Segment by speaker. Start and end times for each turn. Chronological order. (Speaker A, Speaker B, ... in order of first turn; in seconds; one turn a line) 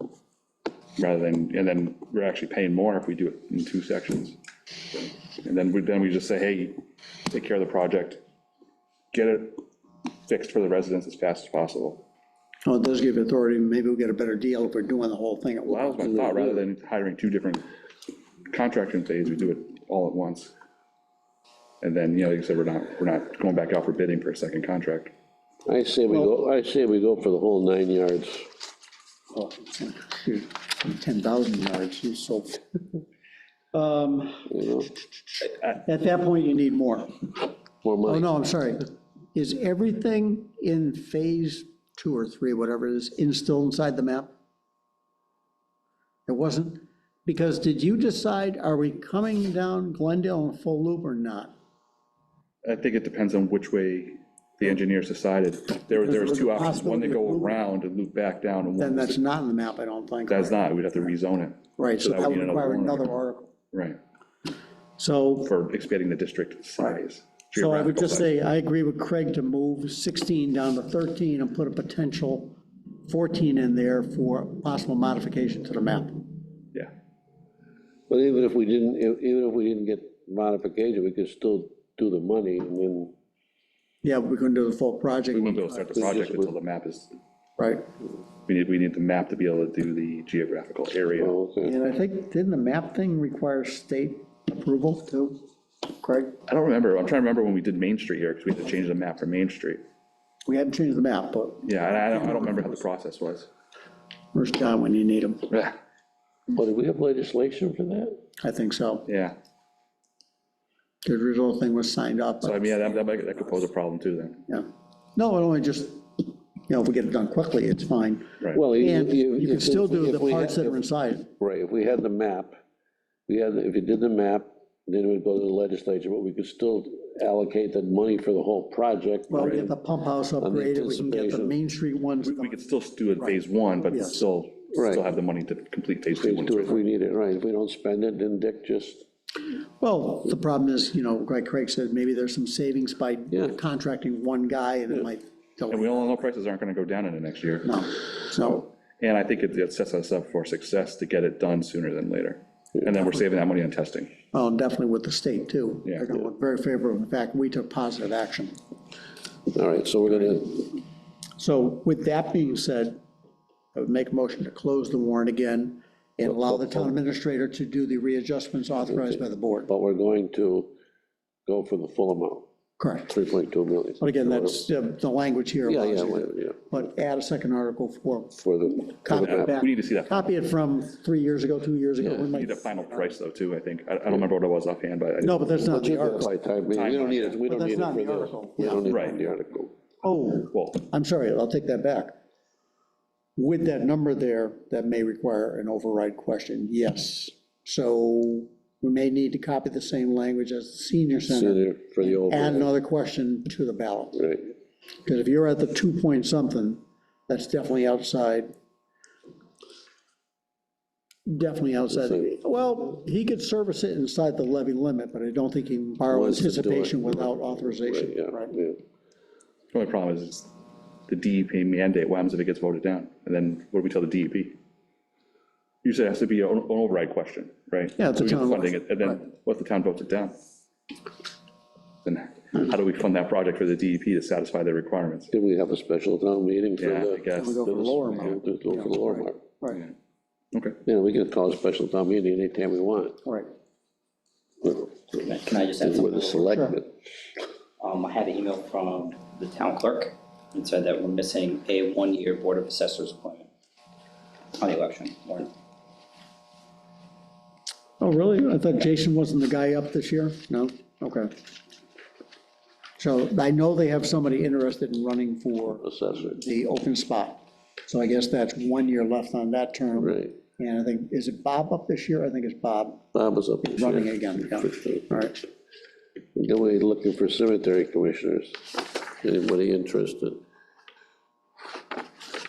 Speaker A: 1.0-4.4
Speaker A: 4.9-8.2
Speaker A: 9.1-9.6
Speaker A: 10.3-12.0
Speaker B: 12.7-16.2
Speaker A: 15.7-17.7
Speaker A: 18.5-20.5
Speaker A: 21.8-25.1
Speaker C: 25.6-28.5
Speaker B: 29.3-32.6
Speaker B: 33.7-34.5
Speaker C: 34.5-34.9
Speaker B: 35.6-37.1
Speaker C: 37.8-38.3
Speaker B: 38.0-44.3
Speaker B: 46.3-51.5
Speaker A: 52.6-59.2
Speaker B: 55.9-57.6
Speaker B: 58.8-60.6
Speaker A: 60.3-63.1
Speaker B: 61.8-63.5
Speaker A: 63.7-64.0
Speaker B: 65.0-65.5
Speaker A: 65.4-68.3
Speaker B: 67.5-72.5
Speaker B: 73.1-76.3
Speaker C: 78.1-83.1
Speaker B: 84.0-86.0
Speaker A: 85.3-87.1
Speaker C: 85.9-86.5
Speaker B: 87.6-87.8
Speaker A: 88.5-91.3
Speaker C: 91.2-91.8
Speaker B: 91.6-95.4
Speaker B: 96.0-96.4
Speaker A: 96.5-99.8
Speaker B: 100.5-102.7
Speaker A: 101.6-103.5
Speaker B: 104.3-105.5
Speaker A: 105.5-105.8
Speaker C: 106.5-108.2
Speaker B: 108.4-109.0
Speaker A: 109.0-109.3
Speaker B: 111.0-112.6
Speaker A: 112.4-114.4
Speaker B: 114.5-121.3
Speaker C: 118.5-120.8
Speaker C: 121.4-122.6
Speaker C: 123.3-129.8
Speaker B: 129.3-132.7
Speaker C: 130.4-131.6
Speaker A: 132.2-136.8
Speaker B: 133.2-134.2
Speaker C: 134.7-135.1
Speaker C: 136.2-139.1
Speaker B: 139.8-146.2
Speaker A: 145.7-154.1
Speaker B: 147.6-148.6
Speaker B: 154.3-158.5
Speaker C: 159.5-160.8
Speaker B: 161.4-163.0
Speaker B: 163.7-169.7
Speaker C: 166.2-166.9
Speaker C: 169.7-170.7
Speaker C: 171.4-172.4
Speaker B: 172.8-173.1
Speaker C: 173.1-174.6
Speaker B: 174.0-183.1
Speaker C: 175.6-176.8
Speaker C: 178.4-179.5
Speaker A: 179.1-180.3
Speaker C: 182.0-182.3
Speaker A: 182.3-185.5
Speaker B: 185.2-186.3
Speaker C: 185.7-189.7
Speaker A: 186.7-187.3
Speaker B: 187.4-188.8
Speaker A: 188.8-189.2
Speaker B: 190.0-192.2
Speaker A: 190.5-190.9
Speaker B: 193.4-204.2
Speaker C: 201.3-202.7
Speaker C: 204.2-204.5
Speaker B: 205.1-208.5
Speaker B: 211.2-218.5
Speaker C: 211.9-212.3
Speaker C: 216.1-218.8
Speaker A: 219.7-220.5
Speaker A: 221.1-224.6
Speaker A: 225.8-230.3
Speaker B: 228.0-229.2
Speaker A: 232.0-235.3
Speaker C: 235.3-239.4
Speaker A: 236.8-238.4
Speaker B: 237.3-239.8
Speaker A: 239.7-239.9
Speaker A: 240.5-240.8
Speaker C: 240.8-243.2
Speaker B: 243.2-243.5
Speaker D: 245.1-246.7
Speaker C: 245.8-246.9
Speaker B: 246.5-246.8
Speaker D: 247.8-253.5
Speaker D: 254.5-255.5
Speaker B: 258.0-261.3
Speaker B: 263.0-273.0
Speaker C: 265.8-266.4
Speaker C: 270.0-270.4
Speaker C: 273.1-275.1
Speaker B: 273.6-275.4
Speaker C: 276.3-280.4